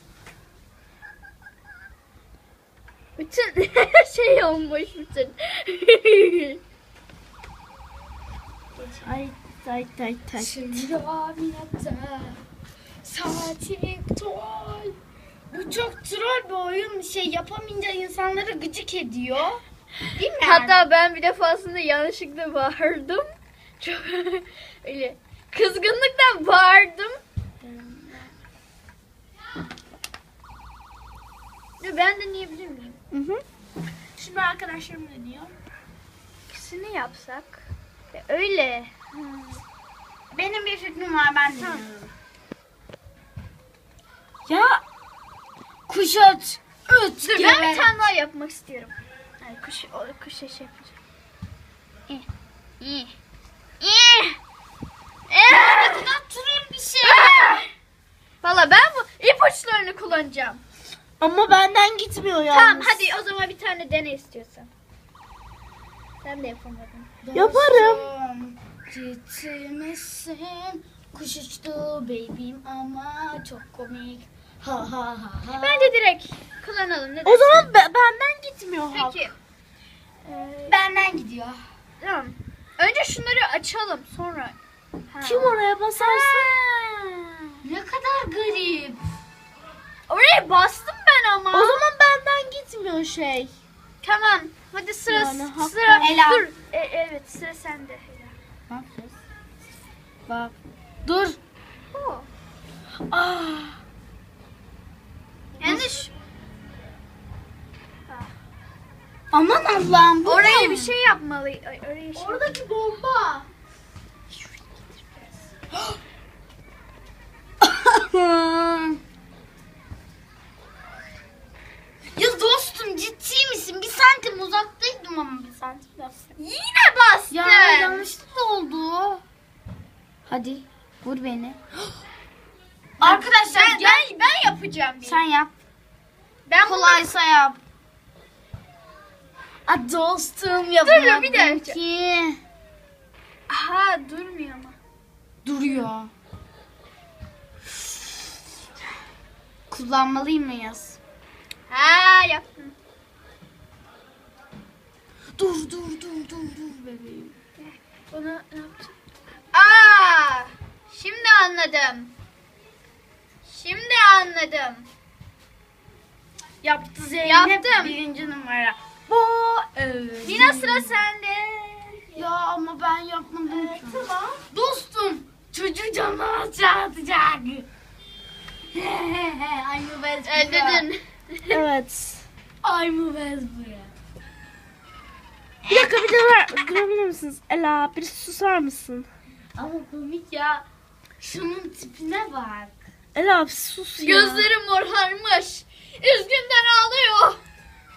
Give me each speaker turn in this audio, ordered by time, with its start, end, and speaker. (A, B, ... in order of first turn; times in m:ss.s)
0:03.2-0:06.6 A
0:08.8-0:09.1 B
0:09.0-0:10.9 C
0:10.4-0:12.4 B
0:13.0-0:15.0 B
0:15.5-0:19.6 B
0:20.2-0:20.8 B
0:20.3-0:23.3 A
0:23.8-0:27.2 A
0:27.6-0:28.3 B
0:31.8-0:33.0 A
0:33.1-0:33.4 C
0:34.2-0:35.6 C
0:36.5-0:39.6 A
0:40.3-0:42.1 B
0:41.5-0:41.9 A
0:44.5-0:44.8 B
0:45.9-0:47.9 B
0:47.2-0:51.0 A
0:52.8-0:53.1 A
0:53.8-0:54.4 A
0:55.3-0:56.1 A
0:55.5-0:57.6 B
0:57.0-0:57.6 A
0:58.4-1:00.6 A
1:01.2-1:03.1 C
1:02.5-1:04.7 A
1:06.2-1:07.1 A
1:07.2-1:15.9 B
1:07.3-1:08.1 C
1:15.6-1:17.7 A
1:17.2-1:19.3 C
1:18.9-1:19.3 A
1:20.2-1:20.8 A
1:20.7-1:21.6 B
1:22.0-1:24.6 A
1:25.1-1:26.5 A
1:25.2-1:27.2 C
1:27.6-1:29.0 B
1:30.1-1:31.8 A
1:31.5-1:33.5 C
1:34.0-1:38.4 A
1:35.1-1:36.2 C
1:36.0-1:36.5 B
1:38.7-1:39.2 B
1:40.3-1:41.4 B
1:41.9-1:42.3 A
1:43.1-1:43.8 C
1:45.6-1:46.1 A
1:45.6-1:45.9 B
1:48.1-1:48.3 A
1:49.3-1:50.9 B
1:50.2-1:52.6 A
1:52.2-1:53.5 C
1:54.3-1:55.5 A
1:57.6-1:59.0 B
2:02.2-2:06.3 B
2:06.4-2:08.1 A
2:07.3-2:09.2 B
2:10.3-2:11.6 B
2:13.0-2:14.3 B
2:13.0-2:15.2 A
2:15.0-2:15.6 B
2:16.5-2:17.1 A
2:16.6-2:17.6 B
2:19.7-2:22.4 B
2:20.8-2:21.8 A
2:23.5-2:24.8 A
2:25.4-2:26.1 B
2:29.7-2:31.0 B
2:31.7-2:32.8 A
2:35.4-2:37.4 B
2:37.6-2:39.0 A
2:39.5-2:42.1 A
2:43.4-2:44.9 A
2:46.6-2:51.0 B
2:47.2-2:48.0 A
2:50.2-2:52.2 A
2:52.2-2:57.7 B
2:53.5-2:54.4 C
2:58.7-3:00.9 B
3:00.2-3:01.6 A
3:01.5-3:02.3 C
3:02.6-3:03.9 B
3:05.6-3:06.1 B
3:05.7-3:09.1 C
3:09.6-3:10.7 B
3:11.2-3:12.8 B
3:13.2-3:14.5 C
3:14.0-3:17.4 A